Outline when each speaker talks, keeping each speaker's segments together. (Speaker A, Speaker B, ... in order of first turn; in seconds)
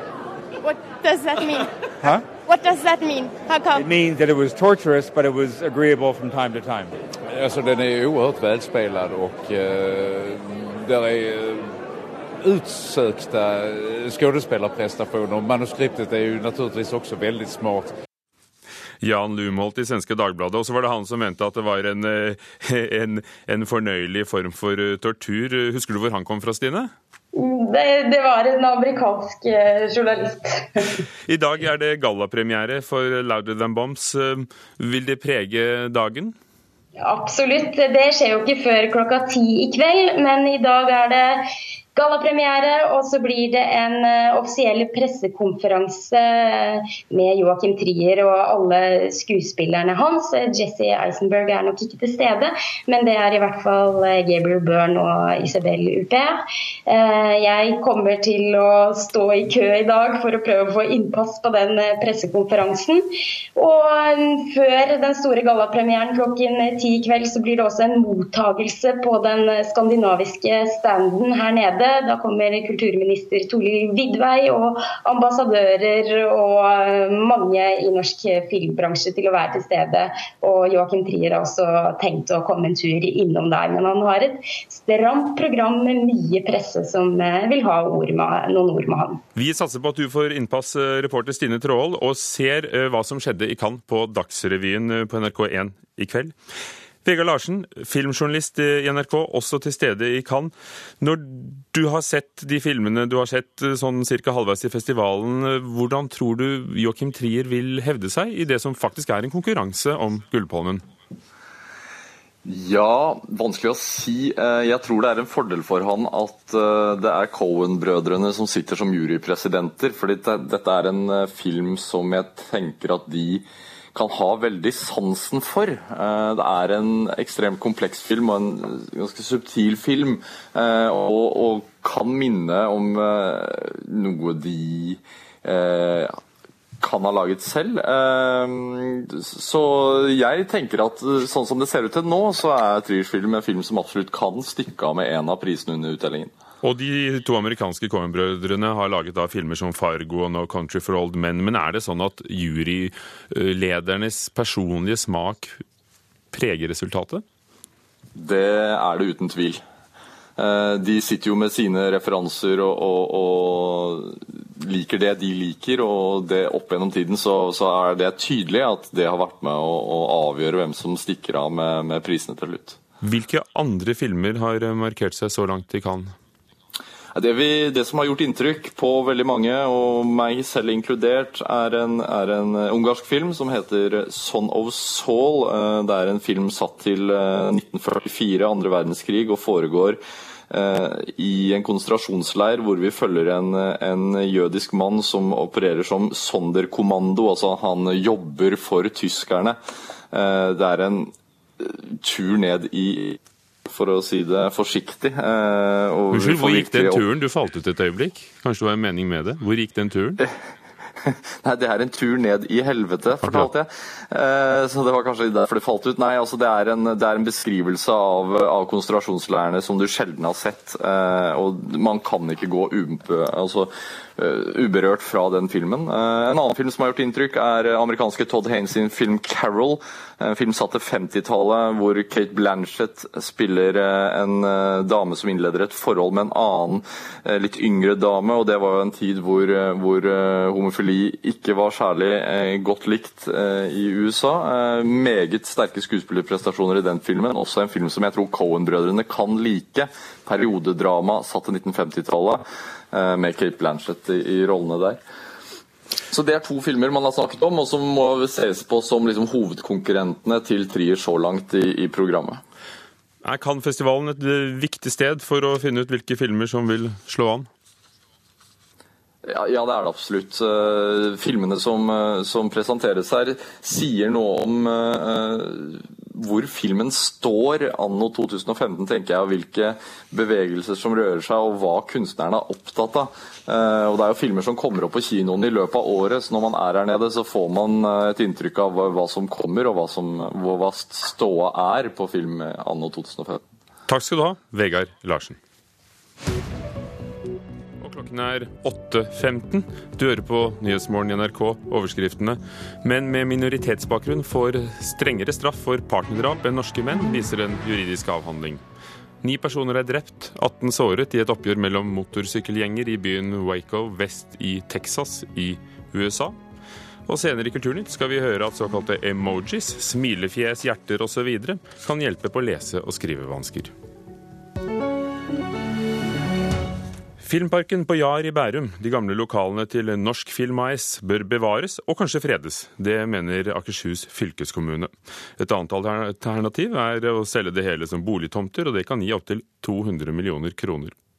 Speaker A: 0.6-1.9, 2.5-3.9
Speaker B: 3.8-6.9
Speaker C: 7.3-11.8, 12.4-17.9
Speaker D: 19.0-26.9, 31.3-36.4, 89.3-96.3, 97.0-110.8, 146.6-155.6, 156.3-157.2, 173.0-176.1, 206.1-210.2, 213.2-213.5, 263.2-267.5, 293.9-295.4, 297.8-308.6, 309.2-316.4, 317.1-323.7, 327.2-341.0
Speaker E: 27.3-31.0, 37.0-41.4, 42.0-89.2
Speaker F: 112.5-136.2, 136.8-146.3, 158.2-159.6, 160.4-172.8, 177.1-190.0, 190.5-199.6, 200.1-207.0, 211.1-255.0, 256.1-262.4, 269.2-293.4